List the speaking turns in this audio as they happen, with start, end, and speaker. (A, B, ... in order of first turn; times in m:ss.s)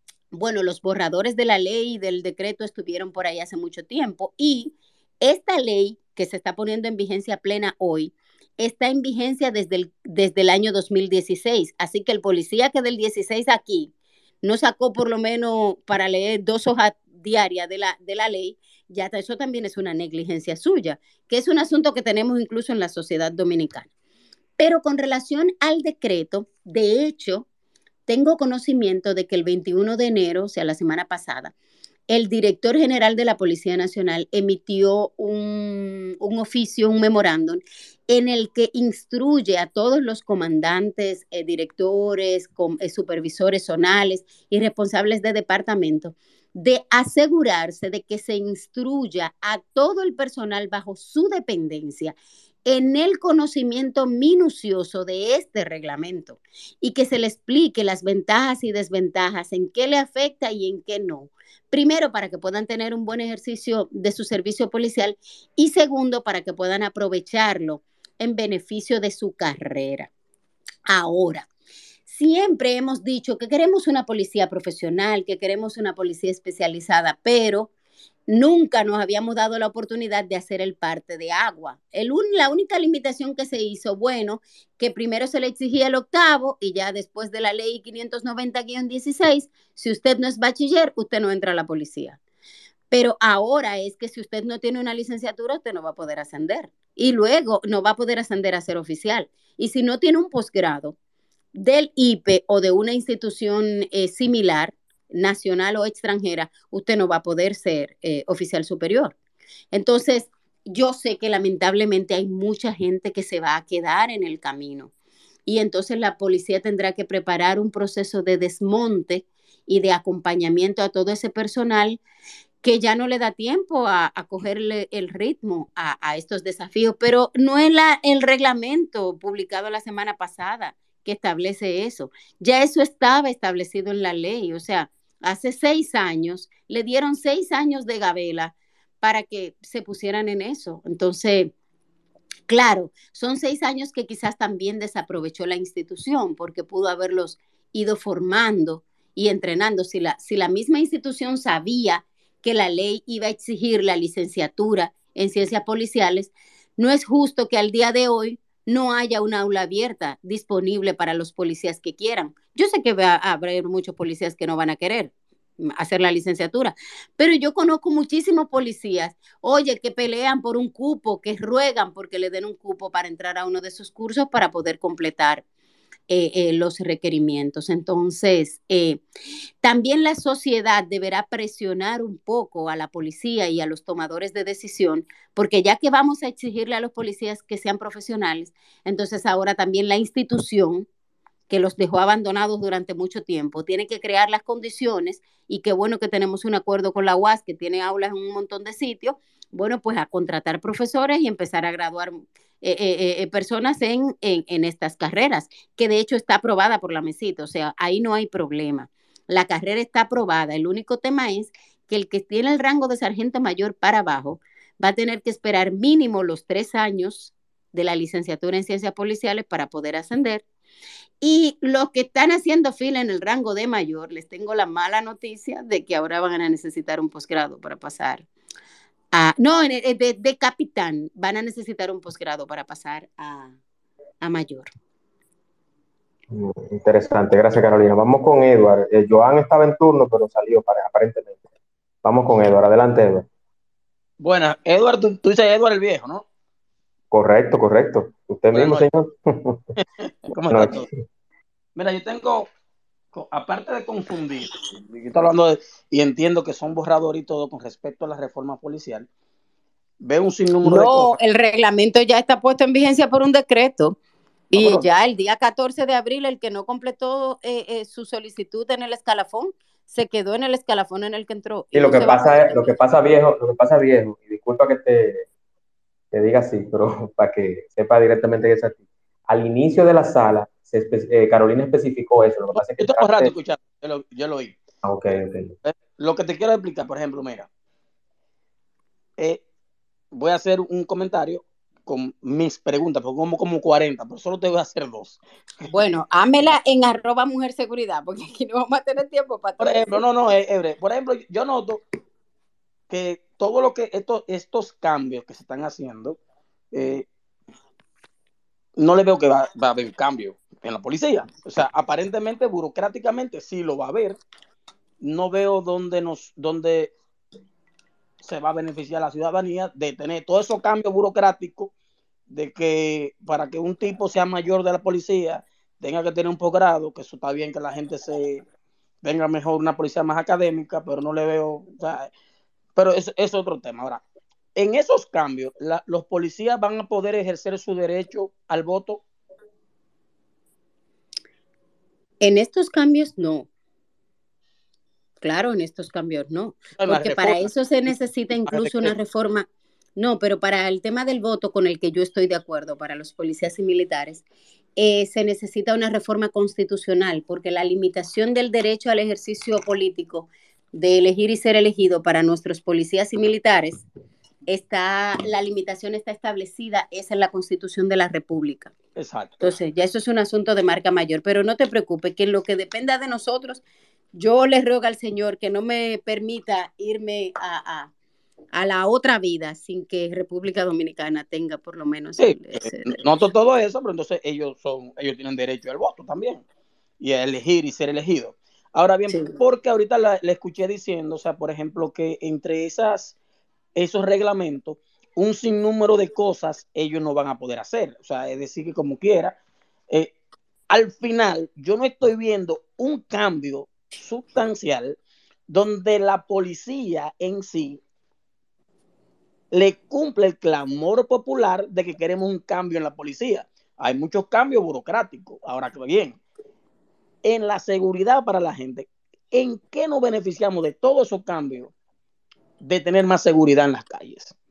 0:00.3-0:13.9 A
0:14.4-0:23.9 A
0:24.6-0:27.5 A
0:28.1-0:31.5 A
0:32.1-1:10.1 A
1:10.9-1:11.5 A
1:12.0-1:17.7 A
1:18.3-1:32.2 A
1:32.9-1:41.0 A
1:41.5-1:49.1 A
1:49.7-1:54.9 A
1:55.4-2:02.0 A
2:02.6-2:21.5 A
2:22.5-2:55.4 A
2:56.1-2:59.0 A
2:59.6-3:10.9 A
3:11.5-3:40.4 A
3:41.2-3:48.3 A
3:49.1-3:53.6 A
3:54.2-3:54.7 A
3:56.3-4:01.4 B
4:02.0-4:03.2 B
4:04.2-4:06.2 C
4:07.1-4:09.6 B
4:08.5-4:08.9 C
4:10.0-4:10.9 C
4:10.5-4:10.8 B
4:11.8-4:12.5 C
4:13.1-4:19.1 C
4:20.0-4:21.1 C
4:20.6-4:24.0 A
4:24.5-4:32.7 A
4:24.5-4:24.8 C
4:31.7-4:35.2 B
4:36.1-4:43.3 B
4:42.5-4:44.6 C
4:44.8-4:45.5 B
4:45.6-4:47.5 C
4:49.2-4:49.4 C
4:50.1-4:55.7 C
4:55.7-5:00.0 A
4:59.6-5:01.8 C
5:02.9-5:06.2 C
5:06.7-5:07.0 C
5:08.8-5:14.2 C
5:15.0-5:16.9 C
5:18.2-5:21.7 C
5:22.3-5:28.4 C
5:29.0-5:32.1 C
5:32.8-5:34.0 C
5:34.6-5:39.0 C
5:42.2-5:43.5 A
5:45.2-5:54.2 A
5:46.8-5:47.5 C
5:48.4-5:48.9 C
5:54.8-6:03.8 A
6:04.5-6:08.7 A
6:09.0-6:09.5 C
6:09.4-6:13.6 A
6:14.1-6:17.9 A
6:18.5-6:23.0 A
6:22.2-6:26.4 C
6:27.0-6:33.1 C
6:33.7-6:39.4 C
6:40.7-6:45.0 C
6:45.5-6:47.8 C
6:49.5-6:56.2 C
6:57.2-7:01.7 C
7:02.6-7:04.3 C